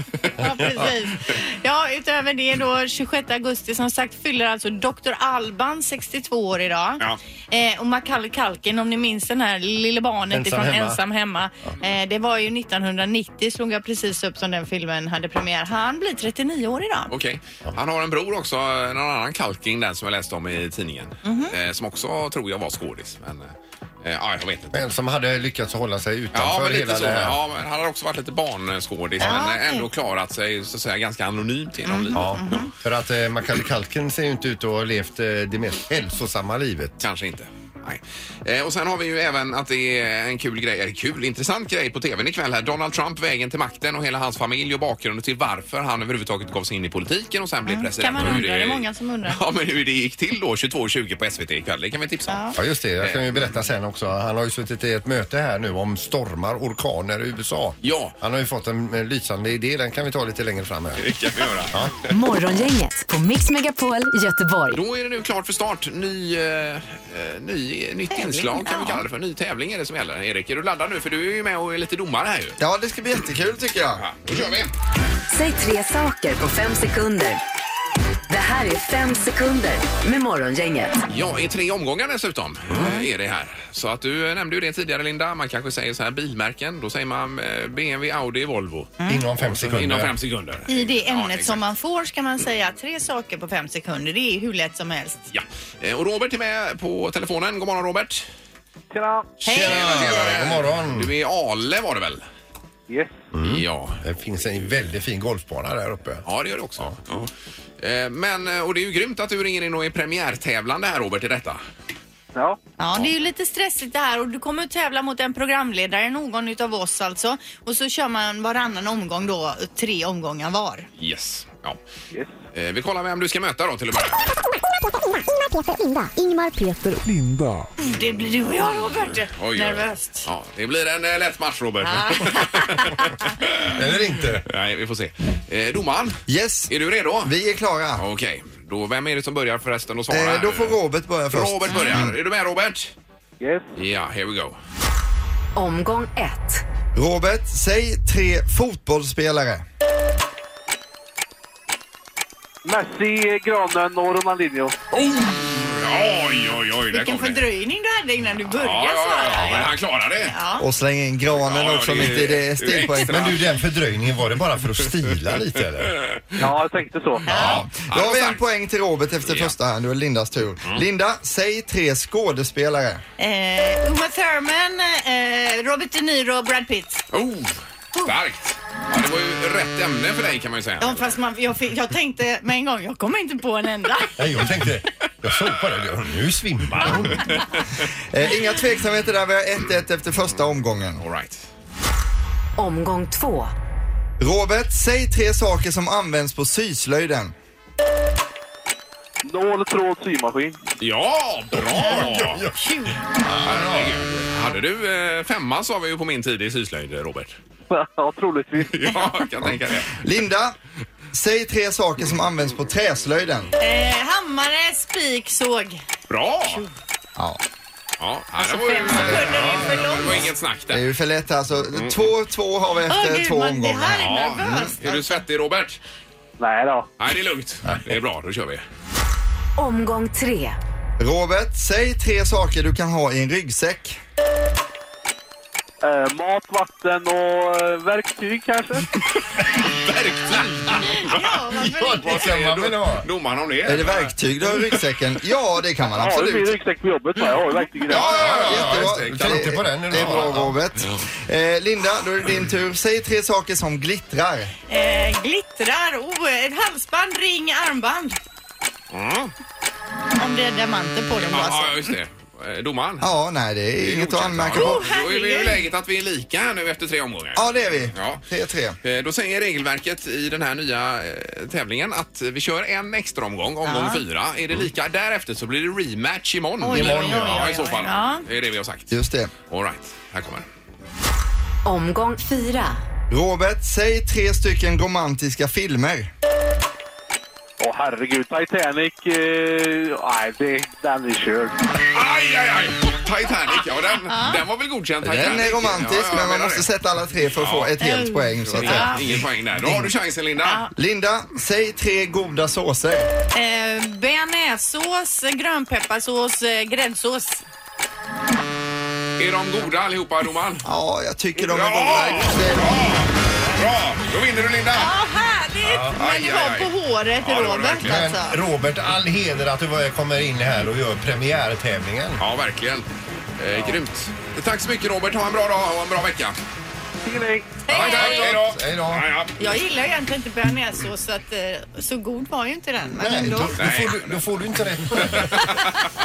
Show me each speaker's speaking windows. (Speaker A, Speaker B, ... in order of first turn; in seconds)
Speaker A: 0.4-17.1, 21.2-21.5, 29.2-29.9, 31.9-32.7, 47.6-49.4, 52.3-52.5, 68.1-69.0, 90.7-95.2, 99.4-100.0, 112.8-120.9, 127.8-130.3, 131.8-133.1, 141.7-142.0, 156.9-160.6, 167.3-167.6, 173.2-177.0, 180.8-184.2, 201.8-203.0, 213.6-215.8, 218.4-220.2, 222.9-225.1, 240.9-242.3, 254.7-258.2, 260.1-261.9, 264.5-265.6, 273.6-274.0, 276.6-278.2, 294.1-294.4, 297.8-299.0, 300.4-300.7, 303.3-307.4, 314.7-318.4, 327.7-328.3, 329.4-333.6
Speaker B: 10.3-11.0, 24.7-27.4, 32.1-37.0, 52.5-61.0, 89.1-90.1, 99.5-101.1, 103.3-106.2, 133.7-134.4, 163.1-165.9, 167.3-167.6, 184.2-187.3, 201.6-202.5, 203.1-204.0, 219.3-219.9, 241.6-243.1, 248.0-250.6, 276.7-277.5, 315.6-315.9, 317.8-322.2, 327.7-329.1, 333.0-335.4
Speaker C: 17.1-24.8, 26.3-32.5, 37.0-52.4, 53.0-53.4, 57.8-58.1, 61.0-61.8, 64.7-72.6, 74.0-74.7, 81.1-91.6, 95.3-98.2, 99.4-102.2, 103.4-104.5, 106.2-111.6, 121.0-121.8, 122.5-124.2, 129.3-133.8, 134.4-137.3, 137.9-140.8, 141.3-142.9, 143.8-144.6, 154.9-157.4, 158.5-160.3, 161.3-163.4, 167.3-168.4, 169.2-169.5, 177.1-181.1, 186.7-187.7, 191.0-191.5, 200.8-202.4, 203.4-207.4, 208.7-210.0, 216.1-216.6, 218.0-220.8, 221.7-222.1, 224.0-225.8, 227.0-228.6, 239.4-241.3, 241.8-244.1, 247.9-250.2, 258.9-259.3, 261.2-263.1, 263.8-268.2, 268.8-278.9, 279.5-280.4, 291.8-296.6, 297.3-297.7, 298.4-300.6, 309.2-310.6, 311.4-314.9, 315.9-318.1, 322.2-322.9, 323.4-326.4, 327.7-329.4, 333.6-334.2, 334.9-335.8
Speaker D: 62.1-64.8, 75.3-77.4, 78.3-81.0, 145.5-146.6, 192.6-193.5, 229.6-230.6, 281.6-282.8
Speaker E: 72.6-74.0, 136.3-136.7, 137.2-138.0, 140.1-142.1, 146.9-149.7, 160.6-163.2, 167.4-173.0, 188.1-191.0, 194.2-197.3, 209.9-210.6, 211.1-213.5, 220.7-224.7, 231.0-234.0, 243.6-246.6, 248.2-254.5, 263.0-264.8, 267.4-268.8, 278.9-279.3, 283.1-286.1, 295.0-299.9, 300.7-303.1, 310.6-312.7
Speaker F: 98.9-99.3, 112.3-112.6, 143.4-143.7, 152.6-154.8, 166.4-167.2, 199.2-200.6, 207.7-208.9, 226.4-226.9, 235.8-238.9, 245.8-248.2, 287.6-291.5, 327.0-327.6
Speaker G: 124.8-127.0